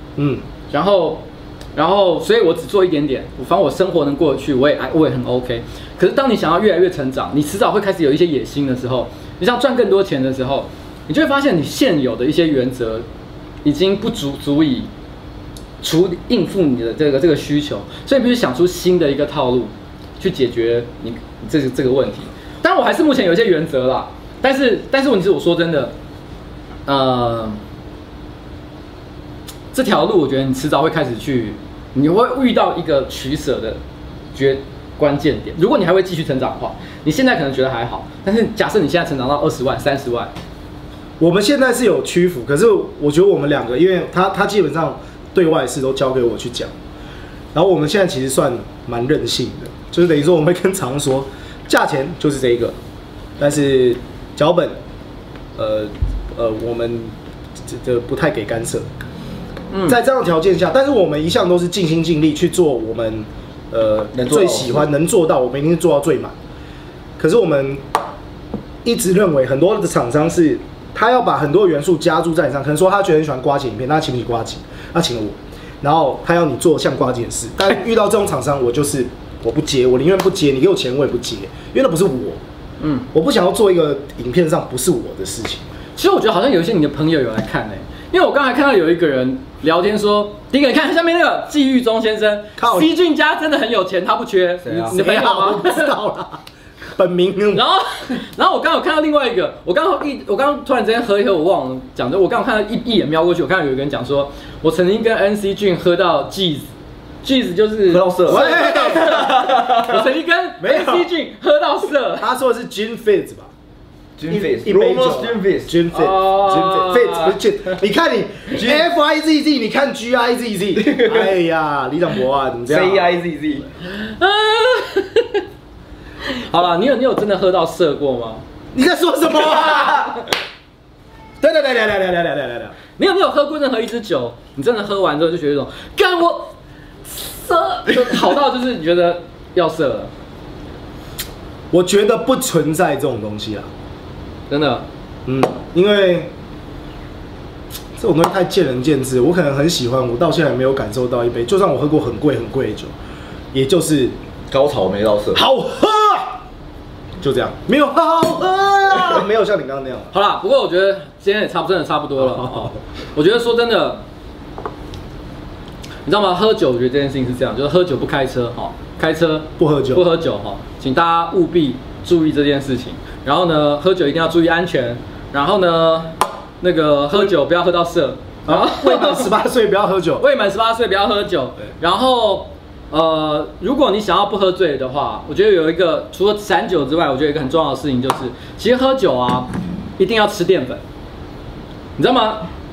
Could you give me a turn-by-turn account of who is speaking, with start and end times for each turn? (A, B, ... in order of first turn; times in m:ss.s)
0:00.2-0:00.4 A
0:00.7-0:13.0 B
0:13.6-0:14.9 B
0:15.8-0:25.9 B
0:26.8-0:27.6 B
0:29.7-0:33.8 B
0:34.3-0:40.3 B
0:41.2-0:46.7 A
0:47.5-0:52.8 A
0:53.4-0:54.8 A
0:55.6-0:57.1 A
0:57.6-0:58.9 A
0:59.7-1:00.0 B
0:59.9-1:06.3 A
1:04.1-1:04.8 C
1:07.2-1:07.9 A
1:08.8-1:22.4 A
1:22.8-1:23.0 B
1:23.1-1:25.6 A
1:26.0-1:35.9 B
1:32.6-1:32.9 A
1:34.6-1:34.9 C
1:34.8-1:36.4 A
1:36.9-1:37.6 A
1:37.5-1:46.7 B
1:47.2-1:52.3 B
1:47.9-1:50.0 C
1:48.2-1:49.2 A
1:50.6-1:51.1 A
1:52.2-1:53.5 A
1:54.2-1:55.7 C
1:54.3-2:03.2 A
1:55.9-1:57.4 B
1:58.5-1:58.8 C
2:00.8-2:01.3 C
2:02.7-2:03.7 C
2:03.8-2:05.4 B
2:06.2-2:08.4 B
2:08.7-2:10.2 A
2:11.4-2:12.7 A
2:13.0-2:16.5 B
2:17.0-2:20.1 B
2:21.7-2:23.7 A
2:24.5-2:24.8 B
2:25.2-2:26.3 A
2:28.0-2:32.9 A
2:33.5-2:34.1 A
2:34.5-2:35.4 C
2:35.3-2:36.4 A
2:37.2-2:40.1 A
2:40.1-2:44.0 B
2:42.2-2:42.8 A
2:46.0-2:59.3 B
2:49.6-2:50.0 A
2:58.4-3:00.2 A
3:00.2-3:10.8 B
3:12.0-3:12.5 B